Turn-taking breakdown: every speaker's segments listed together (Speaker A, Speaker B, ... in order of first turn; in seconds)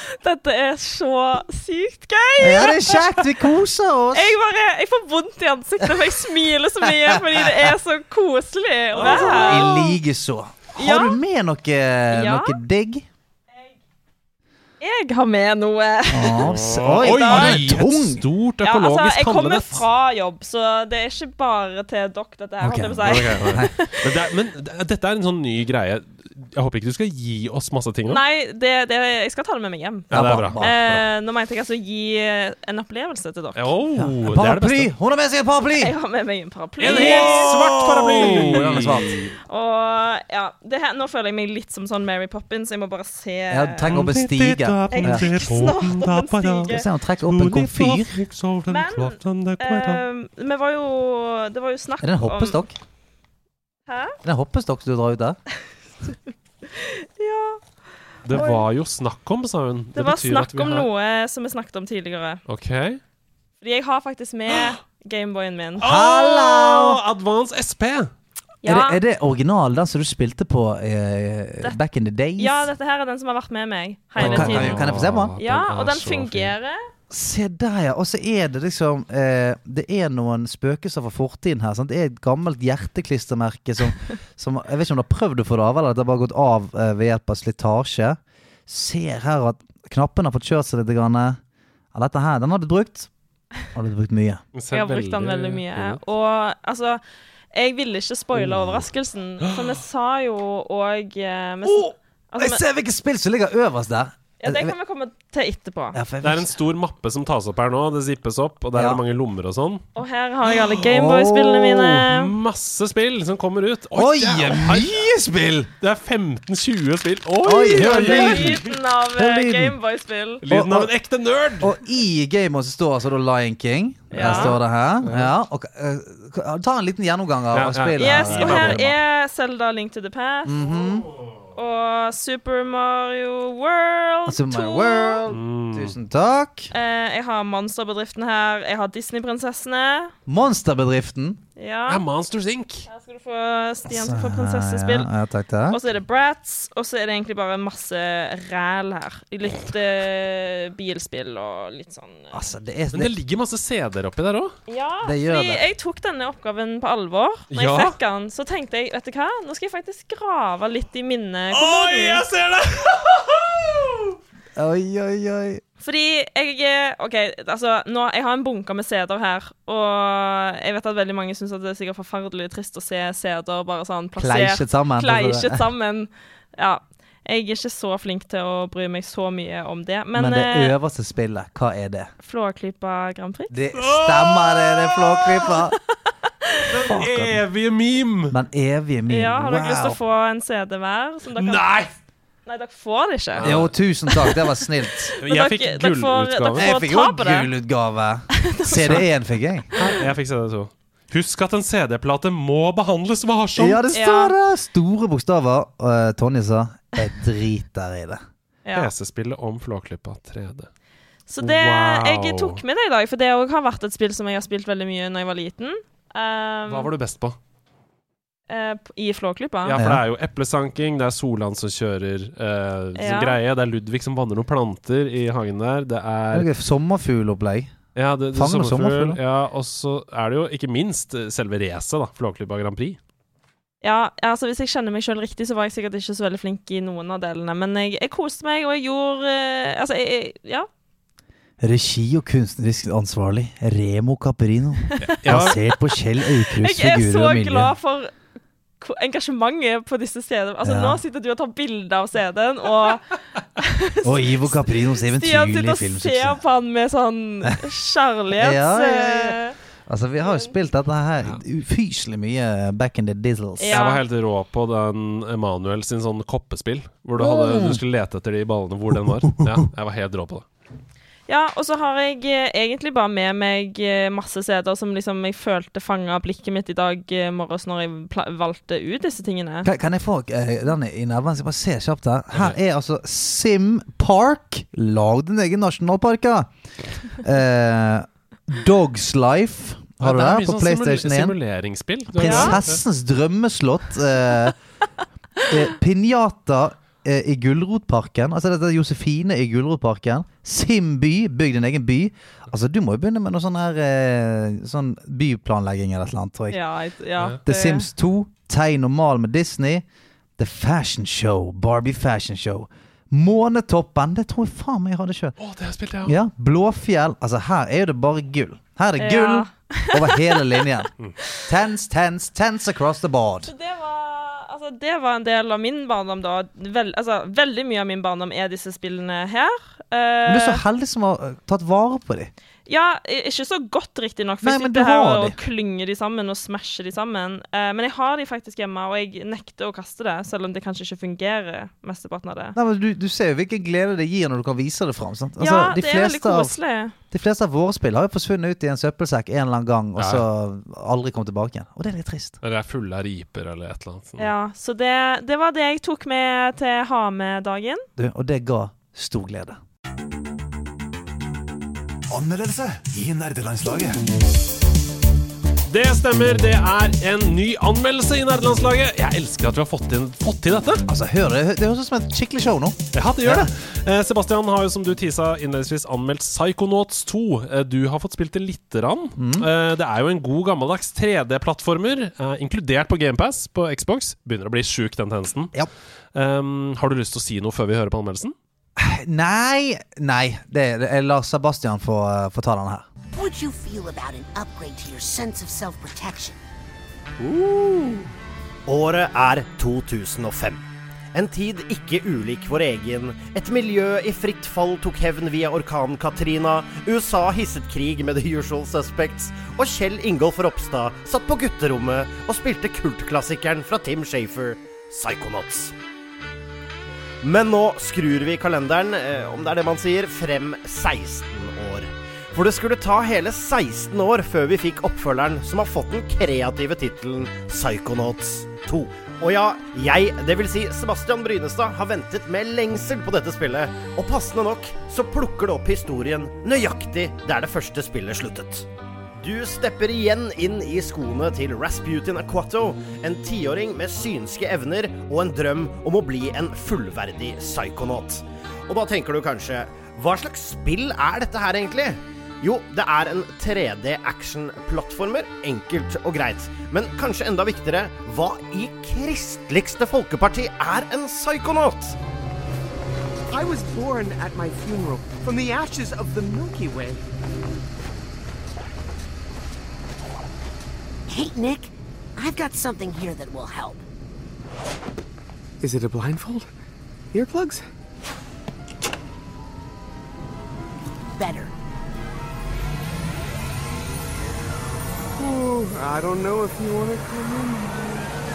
Speaker A: 0.2-3.0, 4.1-10.0, 10.8-11.2, 12.1-12.6, 14.8-17.7, 18.6-24.1, 28.1-33.7, 35.8-44.0, 44.9-46.9, 48.7-52.6, 53.9-54.1, 56.7-57.6, 58.3-58.6, 60.0-62.4, 63.6-65.8, 68.6-69.0, 72.4-76.8, 94.7-97.0, 97.5-102.6, 104.4-106.0, 109.9-112.3, 117.7-120.4, 124.1-124.6, 128.0-130.7, 131.5-135.2, 136.7-140.1, 141.6-142.0, 142.9-145.1, 145.7-152.3, 154.7-162.2, 165.8-180.7, 182.2-183.5, 185.5-185.7, 189.1-191.7, 192.4-193.5, 195.2-197.5, 198.3-199.1, 199.7-200.0, 203.9-204.3, 208.6-208.9, 211.3-216.9, 218.5-219.8, 222.9-223.4, 233.8-240.7, 246.2-248.1, 248.8-259.6, 260.2-260.5, 263.6-264.0, 271.3-279.7, 292.2-292.6, 306.5-307.9, 319.0-320.7, 323.4-330.6, 332.7-342.6, 345.4-346.9, 354.2-357.8
Speaker B: 2.4-4.3, 6.8-7.7, 9.0-13.1, 16.1-18.2, 22.6-23.7, 30.1-30.8, 34.0-35.9, 36.8-39.2, 43.5-45.3, 46.6-48.2, 52.0-52.7, 54.2-55.4, 65.8-67.0, 68.6-72.7, 74.2-75.3, 77.1-91.4, 91.9-93.1, 93.7-94.4, 98.3-98.9, 101.6-104.7, 105.9-106.5, 108.7-109.0, 110.8-112.0, 113.9-115.7, 117.4-118.6, 119.1-119.8, 120.5-120.9, 121.6-128.9, 130.4-131.1, 134.3-136.7, 140.3-141.4, 143.9-145.8, 152.3-153.1, 155.0-155.6, 164.6-165.6, 174.2-175.7, 180.1-182.1, 183.5-185.8, 186.7-187.4, 188.3-190.0, 193.4-195.2, 196.6-199.7, 203.6-208.2, 219.7-220.0, 226.3-227.7, 228.3-229.2, 241.6-247.7, 250.6-251.0, 254.0-256.4, 258.3-263.8, 267.2-267.8, 269.0-269.6, 279.6-286.5, 287.1-291.4, 292.1-294.6, 295.5-306.6, 307.4-309.8, 310.4-315.4, 316.0-323.5, 330.2-332.3, 334.4-335.4, 342.6-346.6, 347.1-352.4, 358.0-359.6, 370.9-373.5, 379.1-379.5, 388.8-392.9
Speaker C: 8.9-9.6, 16.4-19.8, 23.0-28.2, 30.1-31.0, 33.5-34.9, 36.8-39.3, 43.9-50.0, 58.2-60.9, 62.5-63.0, 65.8-68.1, 74.2-76.5, 94.5-96.0, 106.2-109.8, 112.0-115.0, 115.8-118.7, 120.4-121.7, 124.1-125.3, 127.5-128.9, 135.3-135.9, 141.9-142.8, 152.9-154.5, 157.5-157.9, 161.5-164.2, 183.7-184.9, 186.7-188.3, 191.4-191.9, 193.4-193.7, 195.2-196.8, 199.7-203.8, 208.7-210.7, 211.4-212.6, 216.7-217.4, 219.6-226.5, 227.9-233.0, 245.0-245.6, 263.7-270.4, 290.0-292.8, 315.4-316.2, 350.0-350.2, 352.4-354.3, 365.7-370.8, 372.9-385.5, 386.1-388.3
Speaker D: 362.1-364.0
Speaker E: 393.1-396.4, 471.1-473.8, 481.1-481.5
Speaker F: 397.2-398.1, 398.7-400.6, 401.1-415.7, 417.2-438.7, 439.2-462.0
Speaker G: 463.3-467.0, 475.6-476.5, 477.1-477.6, 485.1-488.1